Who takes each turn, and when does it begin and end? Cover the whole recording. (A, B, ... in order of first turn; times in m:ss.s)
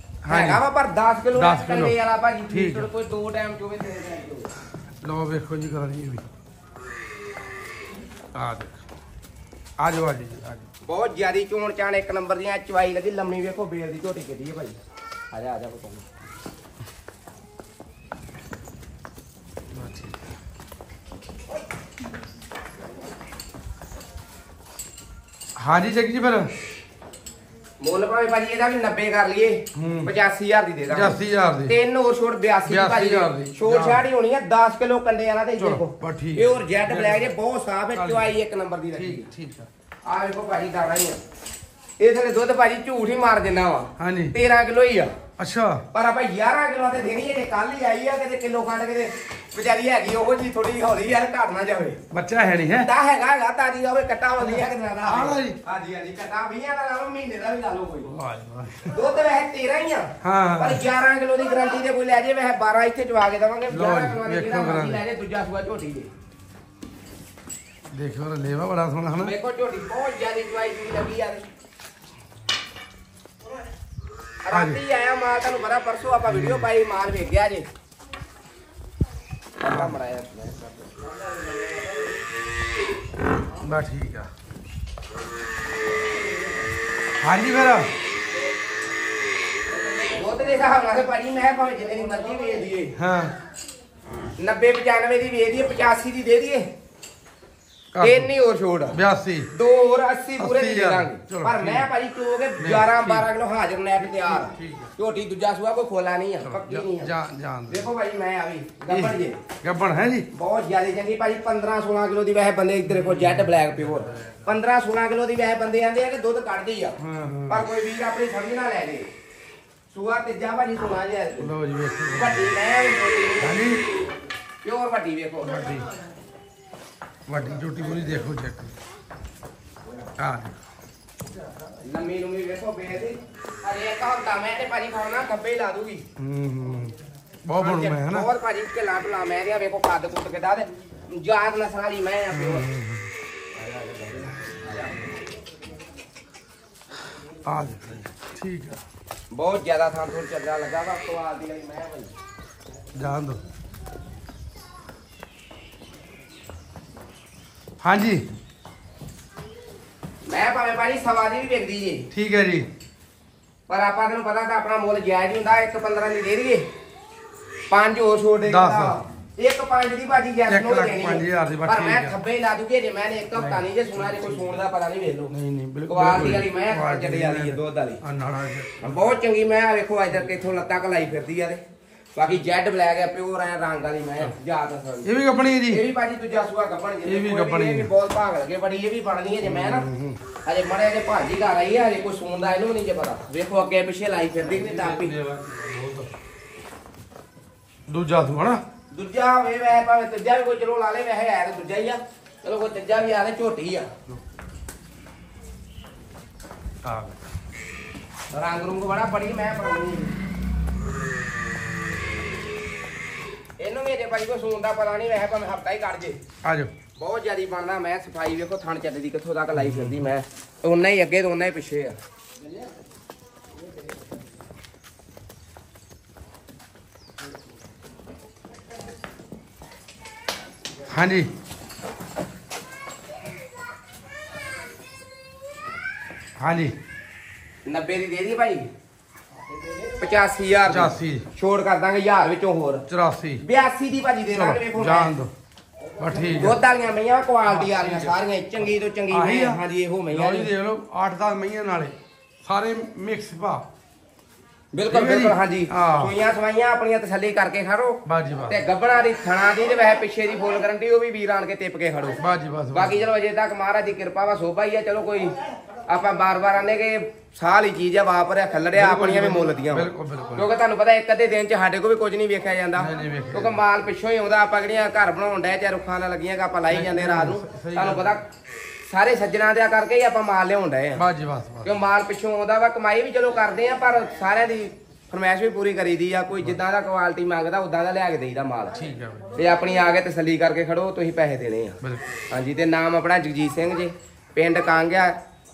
0:00.2-0:00.6 A
0:00.3-0:04.5 B
0:01.3-0:02.0 A
0:02.5-0:02.9 A
0:05.0-0:06.2 A
0:08.3-0:08.8 A
0:09.8-0:10.7 A
0:10.8-0:14.8 B
0:15.3-0:16.0 B
0:19.7-0:20.2 A
0:25.6-0:26.5 A
0:27.8-0:39.3 B
0:29.7-0:30.1 A
0:30.9-0:31.8 A
0:32.6-0:34.0 A
0:35.6-0:37.3 A
0:37.9-0:38.3 A
0:38.9-0:39.7 A
0:40.0-0:41.2 B
0:42.0-0:45.2 B
0:44.0-0:44.4 A
0:45.4-0:45.8 A
0:45.9-0:52.0 B
0:52.1-0:52.9 A
0:52.7-0:58.1 B
0:54.4-0:55.6 A
0:58.1-0:58.9 A
0:58.9-1:06.1 B
1:00.2-1:00.8 A
1:03.7-1:05.0 A
1:07.9-1:09.3 A
1:09.2-1:11.4 B
1:14.4-1:17.7 B
1:14.5-1:14.8 A
1:16.2-1:16.7 A
1:19.6-1:20.9 B
1:19.7-1:19.9 A
1:23.5-1:24.3 A
1:27.2-1:27.9 A
1:30.1-1:32.9 B
1:33.0-1:33.3 A
1:34.4-1:36.7 B
1:37.9-1:38.3 A
1:38.0-1:39.0 B
1:38.9-1:39.5 A
1:39.5-1:47.1 B
1:40.4-1:41.9 A
1:42.6-1:43.3 A
1:44.0-1:44.9 A
1:46.4-1:47.9 A
1:47.7-1:49.4 B
1:48.9-1:50.3 A
1:50.3-1:57.0 B
1:52.9-1:54.6 A
1:57.0-1:57.6 A
1:57.5-1:59.1 B
1:59.9-2:01.5 B
2:01.4-2:02.5 A
2:02.1-2:03.6 B
2:03.4-2:03.8 A
2:04.6-2:05.8 B
2:05.4-2:05.9 A
2:07.3-2:08.7 A
2:10.2-2:10.5 A
2:11.8-2:16.1 B
2:16.2-2:18.3 A
2:17.6-2:22.7 B
2:22.3-2:23.1 A
2:23.7-2:25.0 B
2:27.3-2:28.8 A
2:29.3-2:32.1 B
2:32.9-2:33.4 A
2:37.8-2:38.2 A
2:40.2-2:42.1 B
2:42.1-2:42.7 A
2:43.7-2:46.6 B
2:47.7-2:55.3 B
2:48.5-2:49.0 A
2:50.5-2:52.2 A
2:53.3-2:54.6 A
2:55.3-2:59.1 A
2:55.9-2:58.0 B
2:58.8-3:01.6 B
3:02.2-3:05.1 B
3:05.0-3:05.8 A
3:05.7-3:09.9 B
3:07.0-3:07.9 A
3:09.4-3:10.2 A
3:10.4-3:15.1 B
3:14.4-3:16.1 A
3:17.9-3:18.6 A
3:18.9-3:23.9 B
3:26.8-3:27.2 A
3:28.3-3:30.1 B
3:33.6-3:36.2 B
3:36.4-3:36.7 A
3:37.0-3:42.0 B
3:39.6-3:40.0 A
3:50.8-3:51.3 A
3:56.4-3:56.7 A
3:57.6-3:58.7 B
4:00.0-4:02.8 B
4:00.7-4:01.3 A
4:02.9-4:03.4 A
4:03.4-4:05.1 B
4:04.3-4:05.3 A
4:06.0-4:06.6 A
4:06.3-4:10.5 B
4:07.4-4:08.2 A
4:09.1-4:13.6 A
4:14.7-4:22.2 B
4:14.9-4:16.1 A
4:18.0-4:18.6 A
4:22.2-4:23.0 A
4:22.7-4:25.4 B
4:25.9-4:38.2 B
4:28.7-4:30.5 A
4:32.8-4:33.6 A
4:36.7-4:38.2 A
4:38.8-4:41.0 B
4:40.9-4:41.7 A
4:41.6-4:48.8 B
4:48.7-4:49.4 A
4:49.3-4:51.8 B
4:51.8-4:52.1 A
4:52.3-4:55.2 B